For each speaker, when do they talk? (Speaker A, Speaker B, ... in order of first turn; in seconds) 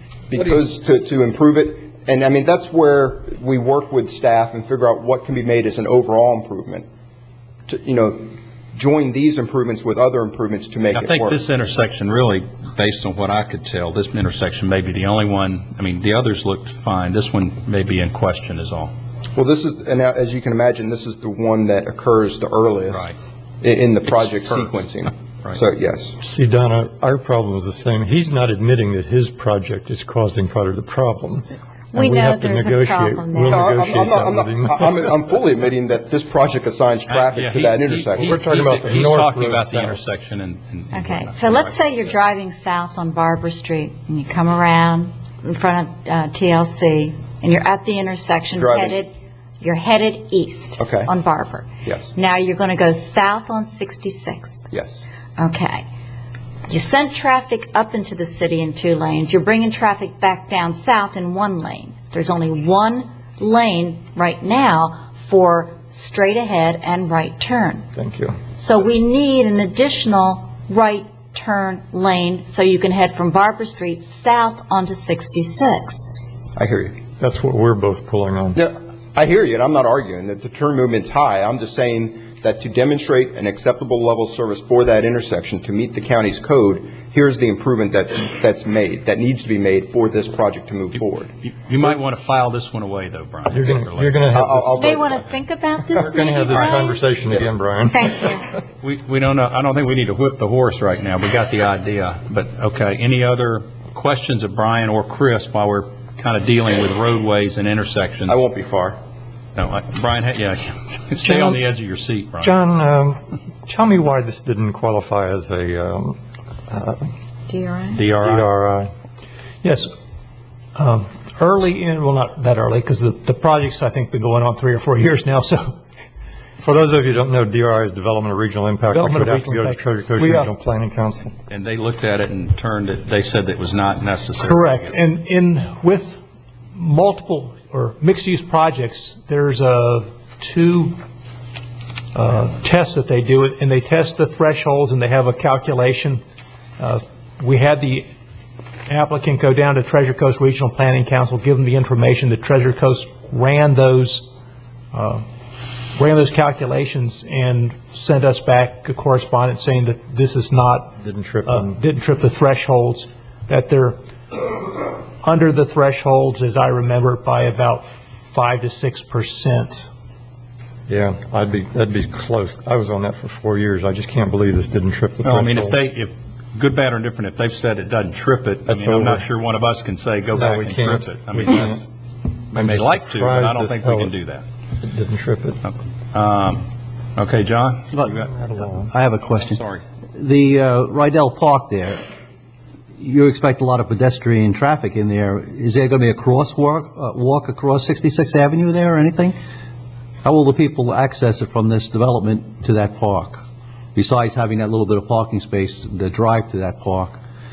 Speaker A: 0.3-6.8, 7.7-11.4, 19.4-23.1, 23.6-26.2, 33.5-38.4, 48.5-49.0, 50.8-51.1, 51.9-52.1, 54.7-55.0, 76.6-77.0, 78.6-91.3, 94.3-95.2, 108.3-109.0
Speaker B: 10.9-18.9, 22.9-23.1, 24.4-24.7, 37.1-41.7, 91.4-94.1, 98.8-108.4, 109.6-112.5, 118.0-118.5, 131.5-134.9, 175.2-181.9, 182.5-184.5, 185.6-186.7, 187.2-187.9, 189.2-189.8
Speaker C: 26.2-35.0, 38.2-40.0, 68.0-68.4, 77.2-78.6, 93.5-95.2, 96.0-98.1, 112.4-116.2, 116.7-117.1, 118.2-118.9, 126.6-131.3, 161.0-161.8, 170.9-175.8, 178.7-179.3, 180.3-181.8, 182.5-184.1, 184.8-185.6, 188.2-188.9
Speaker D: 31.9-33.7, 40.9-54.6, 55.4-55.9, 56.7-67.8, 68.5-76.0, 94.8-97.0, 97.9-98.5, 117.5-118.0
Speaker E: 119.6-119.9, 120.8-125.8, 128.9-130.5, 134.4-136.2, 136.7-141.0, 142.1-146.2, 146.8-148.1, 148.9-154.3, 154.9-155.2, 155.9-160.9, 161.5-169.9
Speaker F: 188.9-189.6, 190.2-192.0, 193.0-199.3, 200.2-203.4, 203.9-207.2